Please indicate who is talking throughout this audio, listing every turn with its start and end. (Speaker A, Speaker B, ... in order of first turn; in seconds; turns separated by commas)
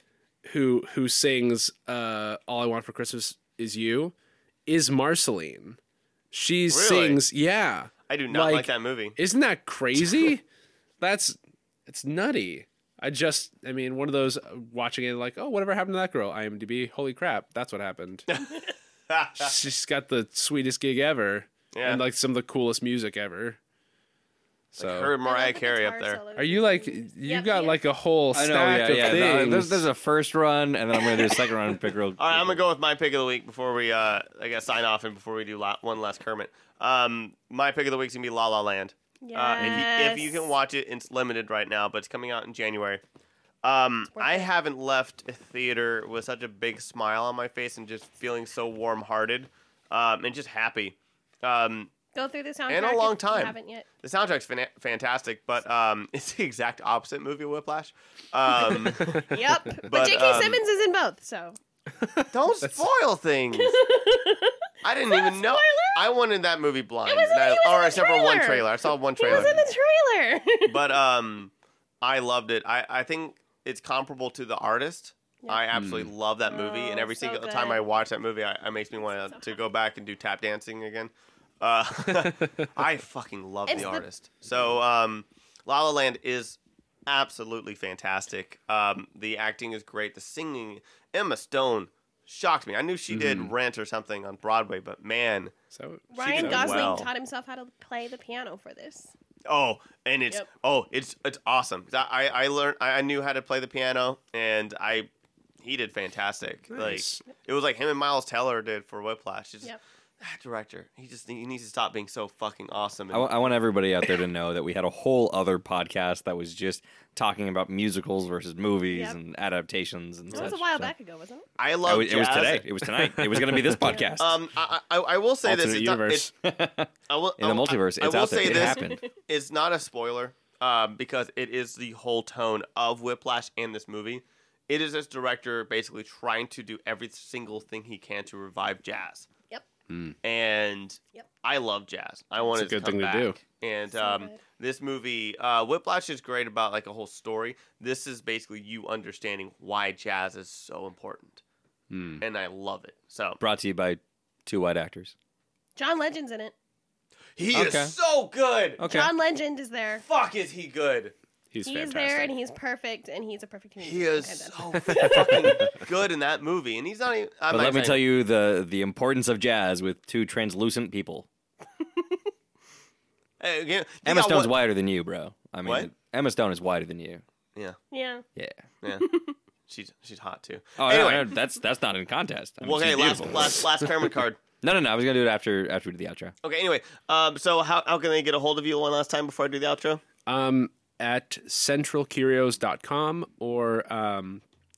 Speaker A: 0.4-4.1, Speaker A: 4.7-5.8, Speaker A: 6.3-10.4, Speaker B: 6.7-7.2, Speaker B: 8.1-9.2, Speaker A: 11.0-18.3, Speaker B: 18.3-19.5, Speaker A: 19.3-23.6, Speaker B: 21.7-22.0, Speaker A: 24.7-25.1, Speaker B: 24.8-26.2, Speaker C: 25.1-27.8, Speaker A: 26.4-29.9, Speaker D: 28.3-32.6, Speaker B: 32.2-43.0, Speaker C: 39.2-40.5, Speaker D: 39.6-39.8, Speaker B: 43.6-51.9, Speaker C: 44.1-44.5, Speaker C: 52.1-53.9, Speaker B: 52.7-60.6, Speaker C: 59.1-61.6, Speaker B: 62.3-63.9, Speaker C: 63.5-66.1, Speaker B: 64.8-69.6, Speaker C: 67.0-70.8, Speaker B: 70.6-95.5, Speaker A: 75.7-76.1, Speaker C: 76.5-77.9, Speaker C: 79.0-79.6, Speaker C: 83.7-84.0, Speaker A: 93.1-93.5, Speaker A: 95.7-96.9, Speaker C: 96.1-99.1, Speaker B: 96.2-97.1, Speaker B: 99.5-105.1, Speaker B: 105.6-113.4, Speaker A: 106.7-107.2, Speaker D: 113.1-120.9, Speaker C: 118.9-119.2, Speaker C: 120.3-121.5, Speaker B: 121.6-122.7, Speaker D: 121.8-124.4, Speaker C: 123.8-124.1, Speaker B: 124.2-126.3, Speaker A: 125.4-126.3, Speaker D: 126.4-129.1, Speaker B: 127.1-139.3, Speaker C: 128.4-129.1, Speaker A: 139.9-140.2, Speaker B: 140.2-151.4, Speaker A: 142.5-143.4, Speaker C: 143.9-144.4, Speaker A: 151.9-152.2, Speaker B: 152.2-153.4, Speaker D: 153.4-155.1, Speaker C: 155.8-156.5, Speaker B: 157.4-158.8, Speaker D: 157.5-157.9, Speaker D: 158.8-159.1, Speaker C: 158.8-160.0, Speaker B: 160.0-161.1, Speaker A: 161.5-162.3, Speaker C: 161.6-165.7, Speaker B: 163.8-168.0, Speaker D: 167.5-171.2, Speaker C: 171.8-172.1, Speaker B: 173.4-174.5, Speaker D: 174.0-177.2, Speaker B: 175.6-175.9, Speaker C: 177.9-178.2, Speaker D: 178.3-178.6, Speaker B: 178.8-179.1, Speaker C: 179.0-179.3, Speaker B: 179.7-181.3, Speaker D: 180.8-183.6, Speaker B: 182.6-184.4, Speaker D: 184.6-186.3, Speaker B: 186.4-190.0, Speaker A: 190.2-194.4